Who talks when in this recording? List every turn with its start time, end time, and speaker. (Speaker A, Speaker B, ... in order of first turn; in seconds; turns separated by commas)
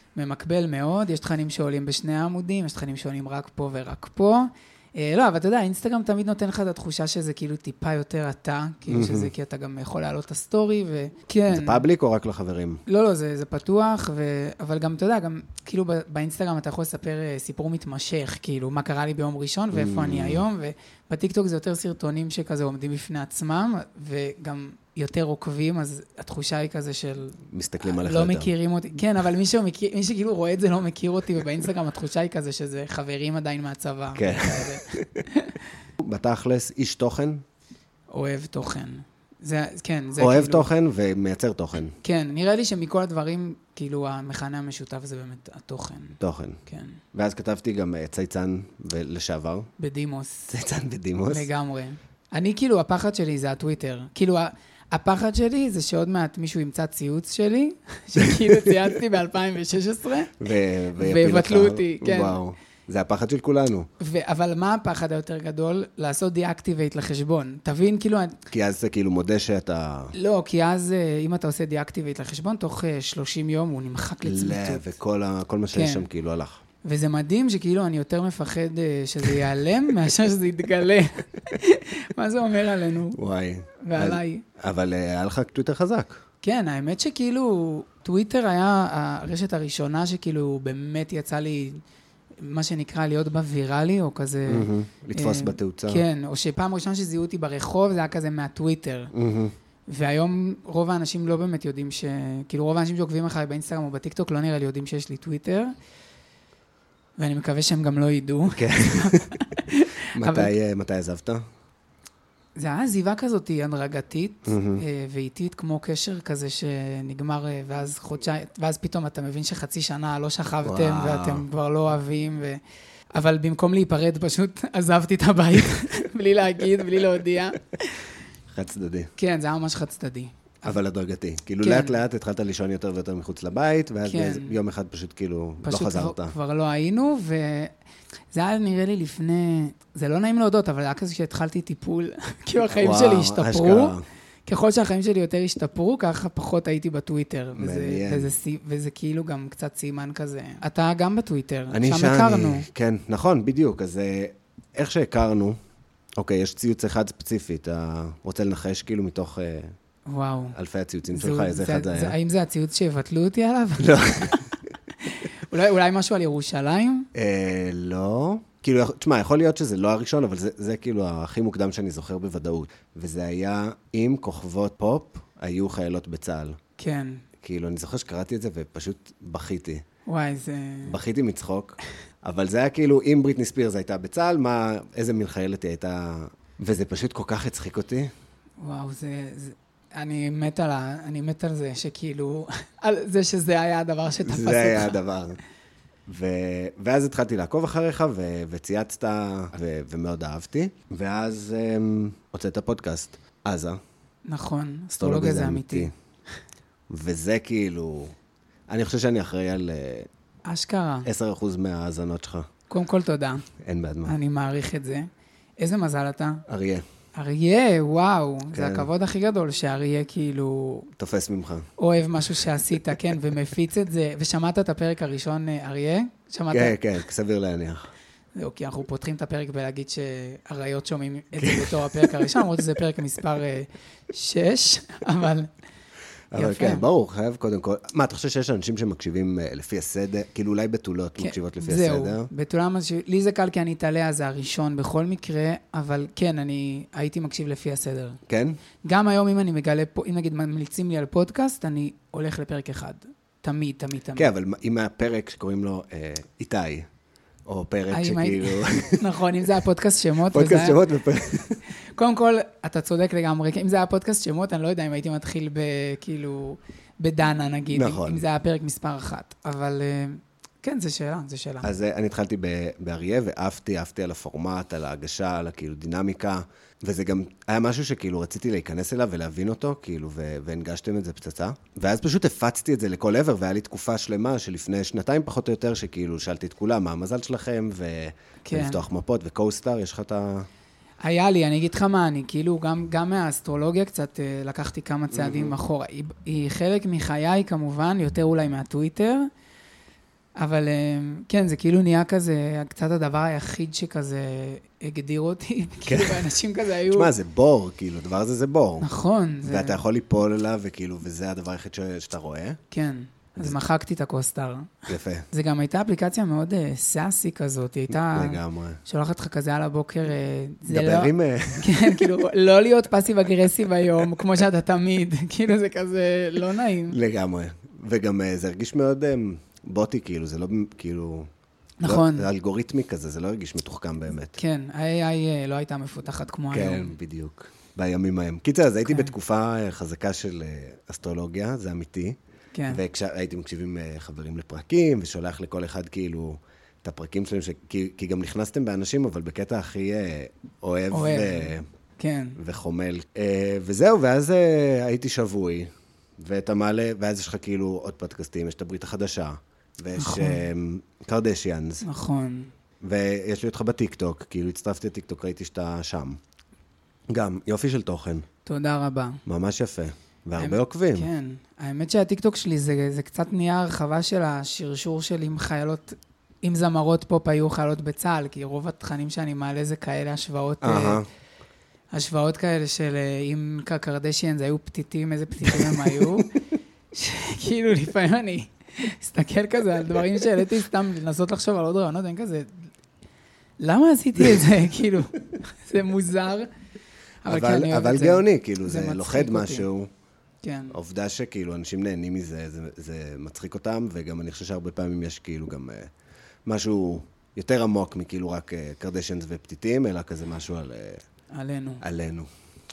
Speaker A: 0.1-11.8, Speaker B: 8.9-9.3, Speaker B: 11.5-12.8, Speaker A: 12.8-35.6, Speaker B: 19.7-20.4, Speaker B: 27.4-28.5, Speaker B: 34.1-35.2, Speaker B: 36.0-37.4, Speaker A: 38.1-40.7, Speaker B: 40.2-42.0, Speaker A: 42.0-47.0, Speaker B: 46.2-46.6, Speaker B: 47.1-49.7, Speaker A: 49.8-50.5, Speaker B: 50.5-51.5, Speaker A: 51.3-60.4, Speaker B: 60.4-63.9, Speaker A: 61.0-62.4, Speaker A: 64.0-68.4, Speaker B: 68.5-70.1, Speaker A: 70.1-74.8, Speaker B: 74.2-76.6, Speaker A: 75.7-76.1, Speaker A: 76.8-83.2, Speaker B: 83.1-86.2, Speaker A: 83.8-84.4, Speaker A: 86.4-91.8, Speaker A: 92.4-99.1, Speaker B: 94.5-96.0, Speaker B: 99.1-99.5, Speaker A: 99.9-105.7, Speaker A: 107.2-110.5, Speaker B: 108.5-109.4, Speaker B: 110.1-111.4, Speaker A: 112.5-122.6, Speaker B: 114.5-114.8, Speaker B: 120.6-121.4, Speaker A: 123.1-128.1, Speaker B: 128.5-129.1, Speaker A: 129.2-130.8, Speaker B: 130.6-136.3, Speaker A: 131.6-131.9, Speaker A: 134.0-134.6, Speaker A: 135.6-137.7, Speaker A: 138.3-152.7, Speaker B: 142.7-144.0, Speaker B: 147.5-148.3, Speaker B: 151.7-155.6, Speaker B: 156.2-159.8, Speaker A: 160.1-160.6, Speaker B: 160.5-162.1, Speaker A: 161.1-167.1, Speaker B: 163.8-164.5, Speaker B: 167.1-176.6, Speaker A: 176.8-177.2, Speaker B: 177.4-179.8, Speaker A: 180.1-181.0, Speaker B: 180.8-188.1, Speaker A: 188.6-195.0, Speaker B: 194.2-195.4, Speaker B: 196.1-203.8, Speaker A: 204.2-205.9, Speaker B: 205.0-205.9, Speaker B: 206.9-208.1, Speaker B: 208.7-210.1, Speaker A: 210.4-211.1, Speaker B: 211.0-212.5, Speaker A: 212.7-213.5, Speaker B: 213.6-214.1, Speaker A: 214.0-216.4, Speaker B: 216.5-216.8, Speaker A: 217.1-220.9, Speaker B: 218.5-218.9, Speaker B: 221.0-221.7, Speaker A: 221.8-226.8, Speaker B: 226.5-227.8, Speaker A: 228.3-235.5, Speaker B: 231.4-232.3, Speaker B: 236.3-242.3, Speaker A: 236.3-236.8, Speaker A: 241.2-248.2, Speaker B: 248.3-248.6, Speaker A: 248.8-254.3, Speaker B: 254.2-256.9, Speaker B: 257.4-259.1, Speaker A: 257.9-260.8, Speaker B: 260.3-261.6, Speaker A: 261.9-271.7, Speaker B: 267.7-268.2, Speaker B: 271.6-290.5, Speaker A: 288.4-288.8, Speaker A: 291.0-299.3, Speaker B: 295.1-295.5, Speaker A: 300.4-307.1, Speaker B: 305.9-306.3, Speaker B: 306.8-308.9, Speaker A: 308.8-309.8, Speaker B: 309.4-312.6, Speaker A: 312.7-327.0, Speaker B: 314.9-315.3, Speaker B: 318.1-318.8, Speaker B: 320.6-322.1, Speaker B: 326.9-331.3, Speaker A: 331.8-332.3, Speaker B: 331.8-334.4, Speaker A: 334.4-336.9, Speaker B: 336.5-342.2, Speaker A: 342.5-342.8, Speaker B: 342.7-351.6, Speaker A: 350.9-352.4, Speaker B: 352.4-361.9, Speaker A: 359.9-360.4, Speaker A: 361.8-362.5, Speaker B: 362.8-366.2, Speaker B: 367.1-368.2, Speaker A: 368.4-369.2, Speaker B: 369.2-371.1, Speaker A: 370.4-381.0, Speaker B: 380.6-381.0, Speaker A: 381.9-386.3, Speaker B: 385.5-386.2, Speaker A: 386.9-392.7, Speaker A: 393.6-396.5, Speaker A: 397.2-399.7, Speaker B: 397.2-399.9, Speaker A: 400.4-400.8, Speaker B: 400.7-405.9, Speaker B: 406.4-411.0, Speaker A: 411.3-411.8, Speaker B: 411.8-412.3